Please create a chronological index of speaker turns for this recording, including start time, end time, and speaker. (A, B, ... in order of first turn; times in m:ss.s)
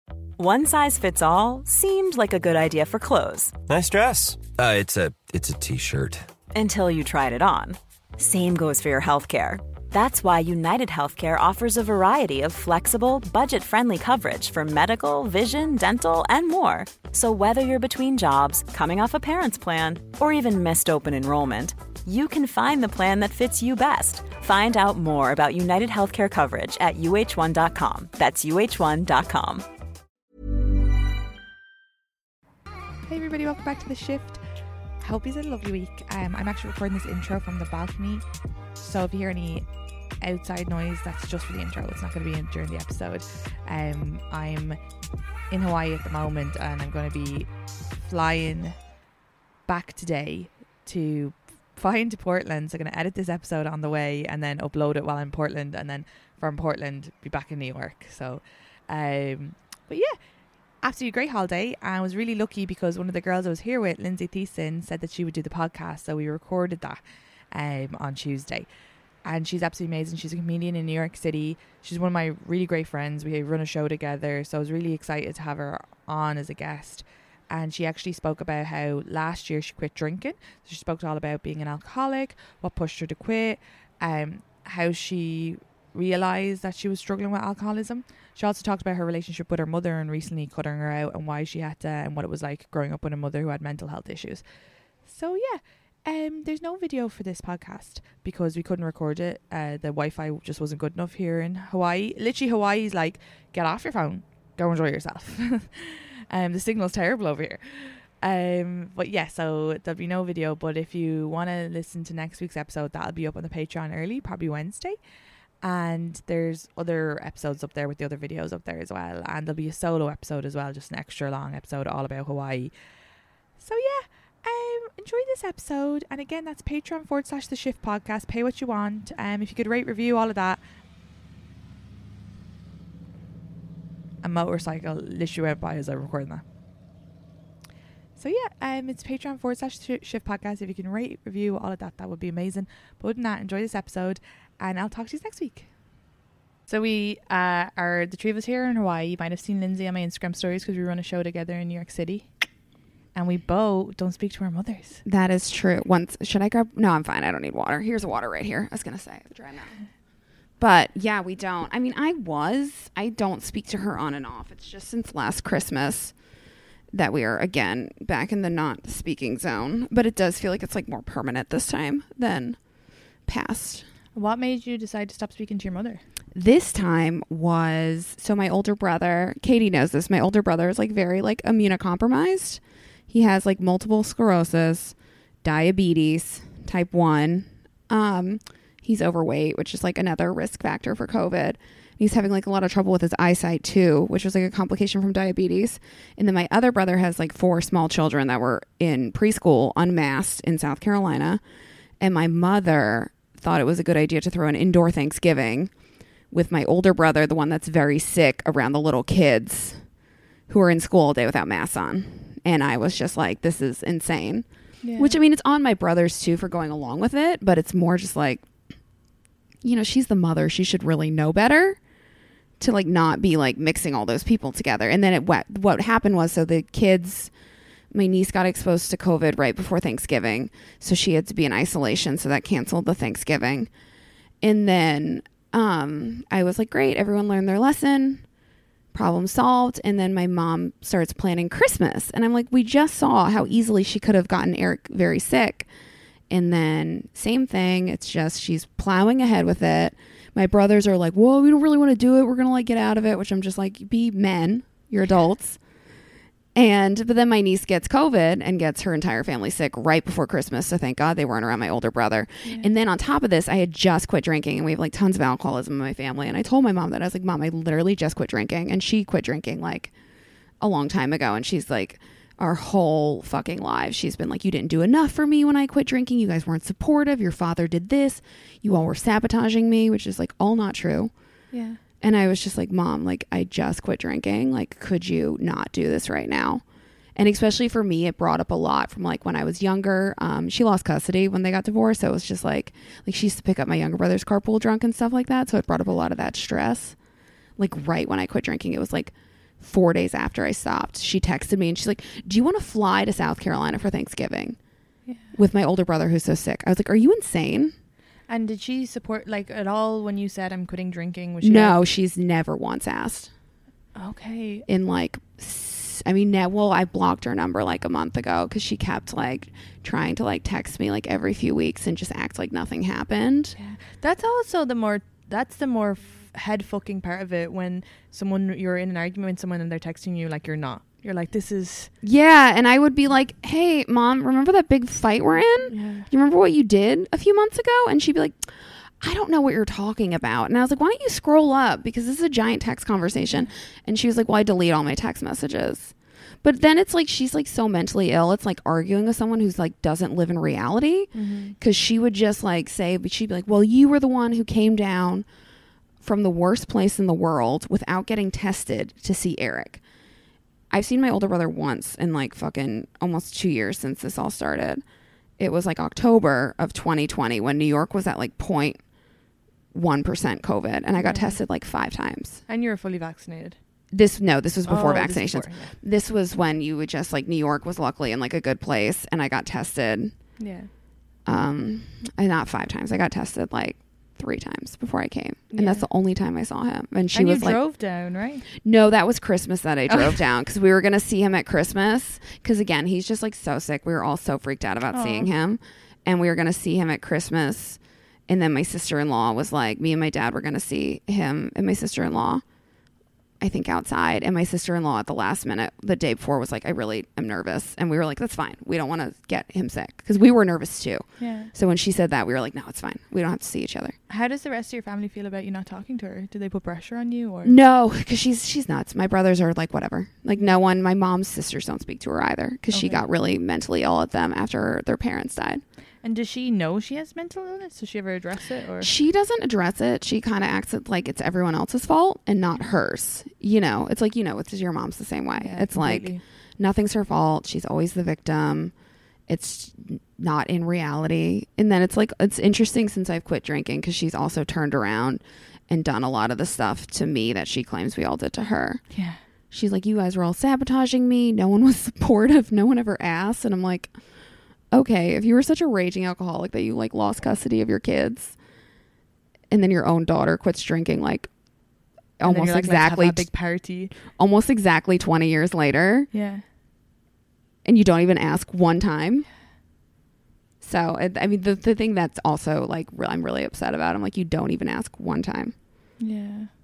0:00.4-0:03.5 A
0:03.7-0:06.2 B
0:06.5-0:29.6 A
0:33.1-0:34.4 C
0:35.0-0:38.2 C
0:38.8-0:39.7 C
0:40.2-0:44.8 C
0:45.5-0:48.8 C
0:49.7-1:00.2 C
1:00.8-1:08.7 C
1:09.2-1:34.4 C
1:35.0-1:55.0 C
1:55.6-2:02.7 C
2:03.6-2:10.6 C
2:14.2-2:16.4 C
2:18.2-2:25.7 C
2:26.7-2:32.3 C
2:33.1-2:35.0 C
2:35.0-2:39.9 D
2:40.6-2:46.2 D
2:46.9-2:53.8 D
2:54.2-2:56.0 C
2:56.3-3:21.4 D
3:22.0-3:30.0 D
3:30.5-3:38.4 D
3:34.8-3:35.2 C
3:39.6-3:41.8 D
3:42.6-3:47.3 D
3:47.9-3:53.7 D
3:54.4-3:58.3 D
3:58.9-4:05.7 D
4:06.3-4:15.8 D
4:16.5-4:29.9 D
4:22.4-4:22.7 C
4:30.6-4:41.2 D
4:41.5-4:41.8 C
4:42.0-4:57.0 D
4:57.6-5:04.6 D
5:05.0-5:05.4 C
5:05.4-5:07.7 D
5:08.3-5:11.8 C
5:11.4-5:13.3 D
5:14.0-5:14.6 C
5:14.7-5:23.6 D
5:23.6-5:31.9 C
5:32.0-5:55.3 D
5:35.7-5:36.1 C
5:51.1-5:51.6 C
5:56.0-5:59.8 D
6:00.7-6:04.8 D
6:05.4-6:08.9 D
6:09.7-6:12.4 D
6:11.0-6:11.4 C
6:12.5-6:13.6 C
6:13.9-6:20.1 D
6:14.6-6:15.8 C
6:20.4-6:20.7 C
6:21.2-6:27.6 D
6:25.5-6:25.9 C
6:27.1-6:28.4 C
6:28.6-6:42.4 D
6:29.9-6:30.2 C
6:34.9-6:35.3 C
6:43.4-6:54.0 D
6:51.2-6:51.5 C
6:54.1-6:57.6 C
6:57.4-7:05.6 D
7:02.7-7:03.1 C
7:06.0-7:08.9 C
7:08.8-7:18.7 D
7:15.4-7:16.2 C
7:19.3-7:34.0 D
7:28.9-7:29.2 C
7:34.6-7:38.4 D
7:39.5-7:41.3 D
7:42.2-7:43.3 D
7:42.2-7:43.9 C
7:44.2-7:46.1 D
7:46.1-7:46.4 C
7:47.6-7:49.3 D
7:50.6-7:55.6 D
7:56.0-7:56.5 C